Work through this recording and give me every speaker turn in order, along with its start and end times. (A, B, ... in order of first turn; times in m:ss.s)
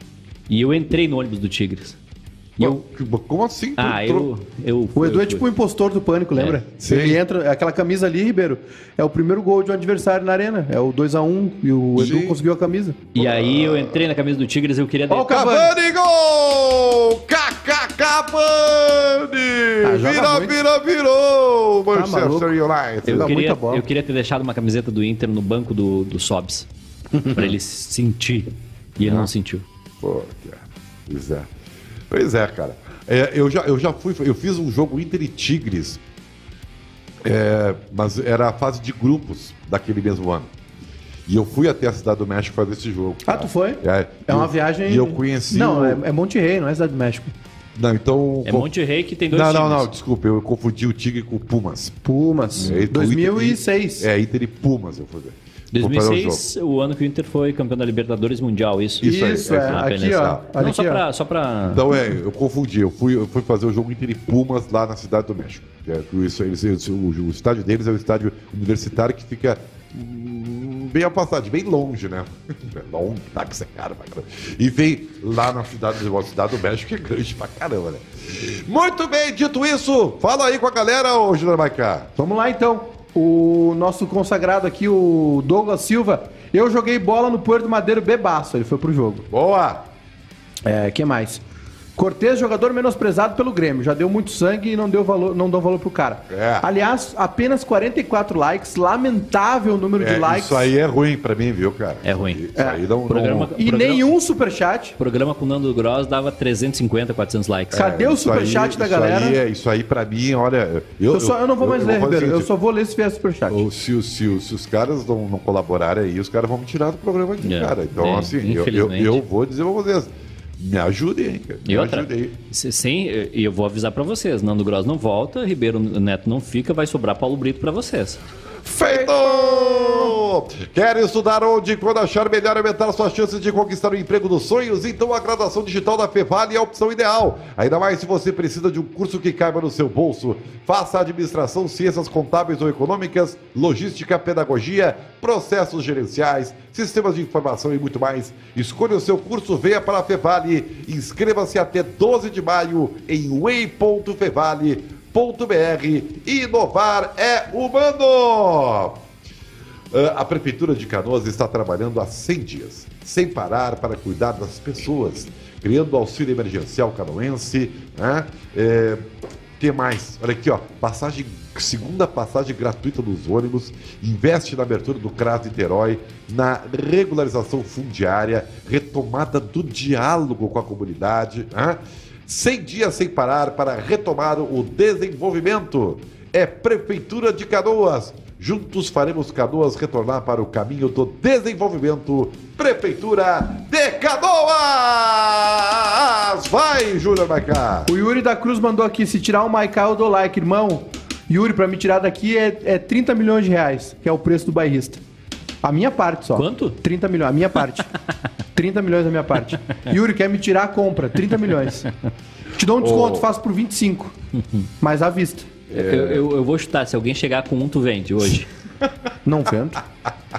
0:00.5-0:02.0 A
0:02.6-0:04.3 B
0:03.8-0:05.4 A
0:04.9-0:13.0 C
0:06.8-0:07.2 B
0:11.9-0:12.4 B
0:13.1-0:15.4 A
0:13.2-0:14.0 B
0:15.1-0:15.7 C
0:15.2-0:23.4 B
0:19.8-0:20.6 C
0:21.9-0:23.8 C
0:23.1-0:26.7 A
0:27.2-0:29.6 A
0:29.0-0:29.3 B
0:30.0-0:31.5 B
0:32.1-0:36.0 B
0:37.2-0:40.5 B
0:41.3-0:46.0 B
0:43.2-0:47.3 C
0:47.7-0:48.7 B
0:48.4-0:49.9 A
0:49.3-0:52.0 B
0:52.0-0:54.1 C
0:52.6-0:56.4 B
0:52.6-0:52.8 A
0:55.7-1:01.8 A
0:59.0-1:00.3 B
0:59.0-1:01.0 C
1:01.7-1:22.1 B
1:22.2-1:29.3 C
1:29.3-1:29.9 B
1:30.6-1:31.4 C
1:32.0-1:40.7 C
1:36.3-1:36.7 B
1:40.0-1:43.5 B
1:42.0-1:42.4 A
1:42.6-1:42.8 C
1:43.1-1:44.1 A
1:43.5-1:45.0 C
1:45.0-1:47.9 A
1:47.7-1:52.5 B
1:47.7-1:49.4 C
1:51.1-1:53.6 C
1:53.5-2:02.4 B
1:57.4-1:59.2 A
2:01.6-2:08.2 A
2:08.6-2:39.0 B
2:09.4-2:10.0 C
2:39.9-2:49.0 B
2:49.6-3:17.9 B
3:17.9-3:25.0 C
3:25.6-3:27.9 C
3:26.4-3:26.8 A
3:28.5-3:31.9 C
3:32.6-3:34.1 C
3:32.8-3:33.3 B
3:34.8-3:35.5 C
3:35.7-3:36.2 B
3:35.7-3:38.5 A
3:39.2-3:39.8 C